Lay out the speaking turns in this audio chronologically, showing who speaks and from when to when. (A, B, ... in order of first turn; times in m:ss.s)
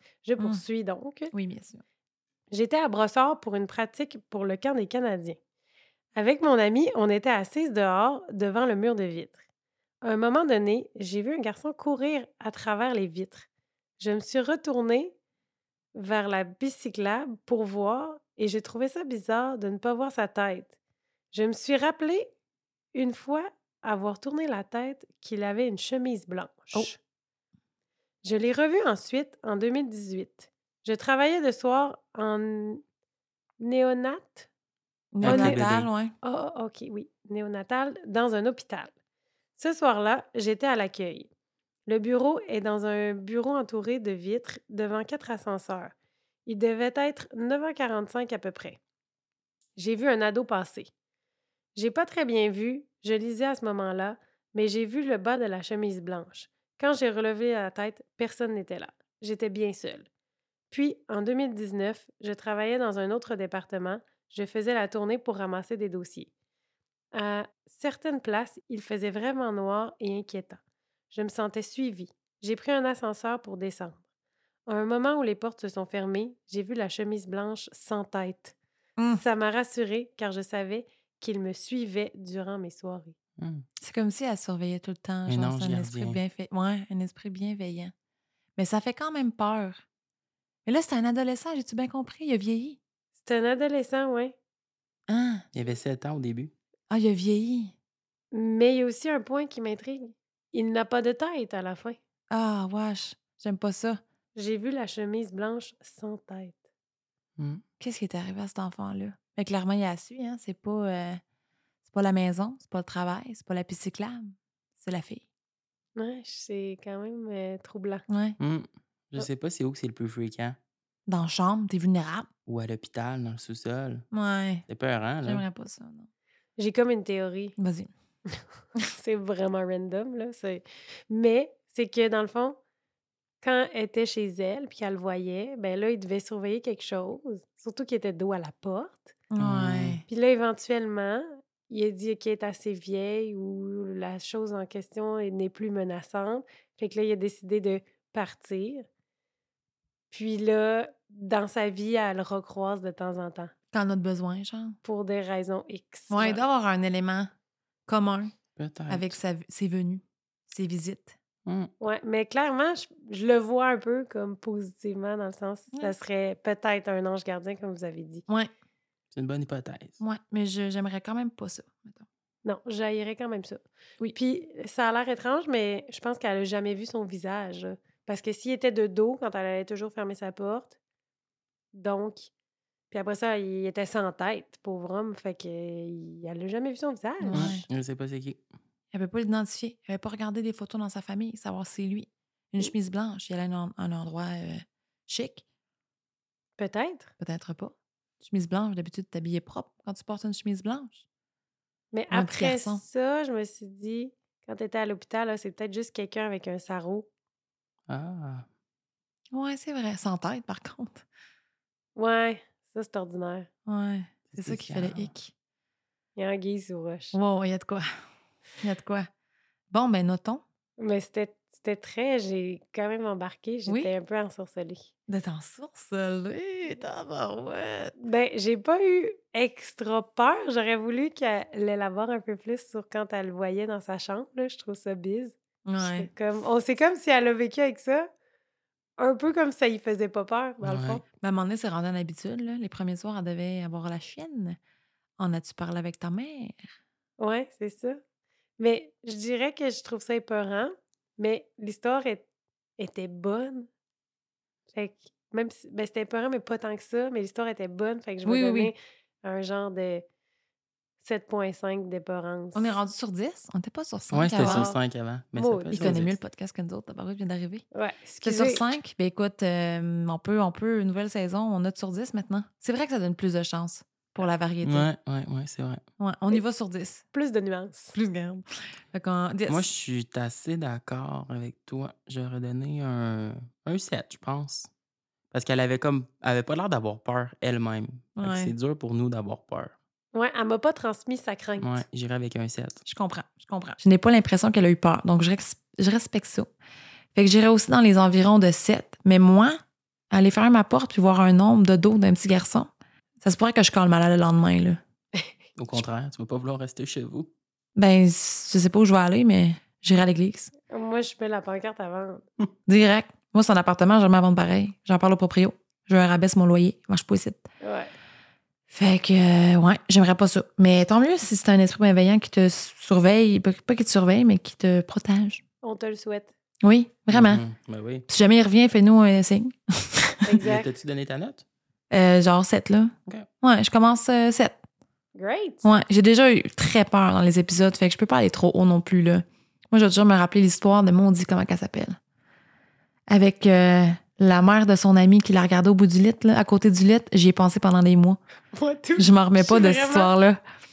0:00.2-0:01.3 A
0:01.3-0:01.8 B
0:02.5-0:05.4 A
0:06.1-0:09.4 A
0:10.0-0:13.4 A
0:14.0-0:15.1 A
0:15.9-0:20.7 A
0:21.3-0:22.3 A
0:22.9-0:27.0 A
0:28.2-0:32.8 A
0:33.6-0:34.5 A
0:35.1-0:36.1 B
0:35.2-0:35.9 C
0:35.2-0:35.6 A
0:36.2-0:38.9 A
0:39.6-0:41.3 A
0:41.9-0:45.9 A
0:46.4-0:48.8 A
0:49.8-0:50.9 A
0:51.8-1:00.0 A
1:00.7-1:06.3 A
1:07.1-1:10.6 A
1:11.1-1:14.0 A
1:14.7-1:18.5 A
1:19.0-1:19.2 B
1:19.1-1:23.1 A
1:23.4-1:23.6 C
1:23.8-1:27.9 B
1:25.3-1:26.2 C
1:28.6-1:29.8 B
1:30.6-1:32.8 B
1:33.2-1:34.3 A
1:35.1-1:35.4 B
1:35.5-1:36.5 C
1:36.9-1:37.7 B
1:38.3-1:42.0 A
1:42.3-1:44.0 B
1:44.4-1:46.6 A
1:47.4-1:47.6 C
1:47.8-1:51.2 B
1:51.8-1:55.2 B
1:56.0-1:58.0 A
1:58.1-1:58.4 B
1:58.4-2:00.6 C
2:01.1-2:02.3 B
2:02.5-2:04.0 C
2:04.1-2:04.6 B
2:04.7-2:05.4 C
2:05.2-2:06.1 B
2:06.6-2:07.6 A
2:07.6-2:07.9 B
2:08.9-2:12.6 A
2:13.4-2:19.2 A
2:19.3-2:20.0 B
2:19.4-2:20.0 C
2:20.1-2:28.8 A
2:30.1-2:33.5 A
2:33.7-2:34.8 B
2:34.8-2:36.4 A
2:36.1-2:37.3 B
2:37.9-2:38.3 B
2:38.6-2:39.2 C
2:38.9-2:41.1 B
2:41.4-2:41.7 C
2:41.8-2:48.2 A
2:49.1-2:50.0 C
2:50.0-2:52.0 B
2:52.4-2:53.6 A
2:54.1-3:00.7 A
3:01.7-3:02.3 A
3:02.9-3:07.6 A
3:07.2-3:07.6 B
3:07.3-3:08.4 C
3:08.9-3:15.4 B
3:16.6-3:17.1 A
3:17.2-3:21.0 B
3:21.9-3:27.1 A
3:22.1-3:22.8 B
3:27.9-3:28.5 C
3:29.3-3:31.0 B
3:32.0-3:33.5 A
3:33.7-3:35.3 B
3:34.3-3:35.1 C
3:36.2-3:37.2 A
3:37.1-3:37.9 B
3:38.6-3:39.1 B
3:39.7-3:40.4 B
3:40.8-3:44.9 A
3:45.1-3:47.9 B
3:48.0-3:58.1 A
3:55.7-3:56.1 B
3:59.0-4:01.0 A
4:00.6-4:01.0 C
4:01.2-4:04.6 B
4:05.2-4:06.6 B
4:07.2-4:08.0 A
4:08.6-4:12.2 A
4:12.8-4:13.7 A
4:14.7-4:20.0 A
4:18.2-4:18.7 B
4:21.0-4:22.7 A
4:22.5-4:24.7 B
4:24.1-4:26.2 C
4:24.4-4:24.8 A
4:25.3-4:26.0 A
4:25.7-4:27.6 B
4:27.7-4:28.7 A
4:28.2-4:34.9 B
4:34.6-4:35.8 C
4:36.0-4:37.0 B
4:37.1-4:38.0 A
4:37.9-4:39.7 B
4:39.5-4:44.7 C
4:45.3-4:49.7 C
4:48.2-4:48.5 B
4:50.1-4:51.8 A
4:51.6-4:52.8 C
4:52.8-4:56.5 B
4:57.1-4:59.6 B
5:00.1-5:02.7 B
5:03.2-5:04.8 B
5:05.6-5:07.3 C
5:07.8-5:10.5 B
5:10.7-5:12.2 A
5:12.7-5:17.4 B
5:17.6-5:17.9 A
5:18.7-5:25.4 B
5:25.6-5:26.3 A
5:26.6-5:27.4 B
5:27.1-5:28.0 C
5:28.1-5:30.2 B
5:30.2-5:30.7 A
5:30.4-5:31.4 C
5:31.9-5:34.6 B
5:35.1-5:35.7 A
5:35.6-5:42.0 B
5:43.1-5:48.2 B
5:48.5-5:50.1 A
5:49.0-5:50.4 B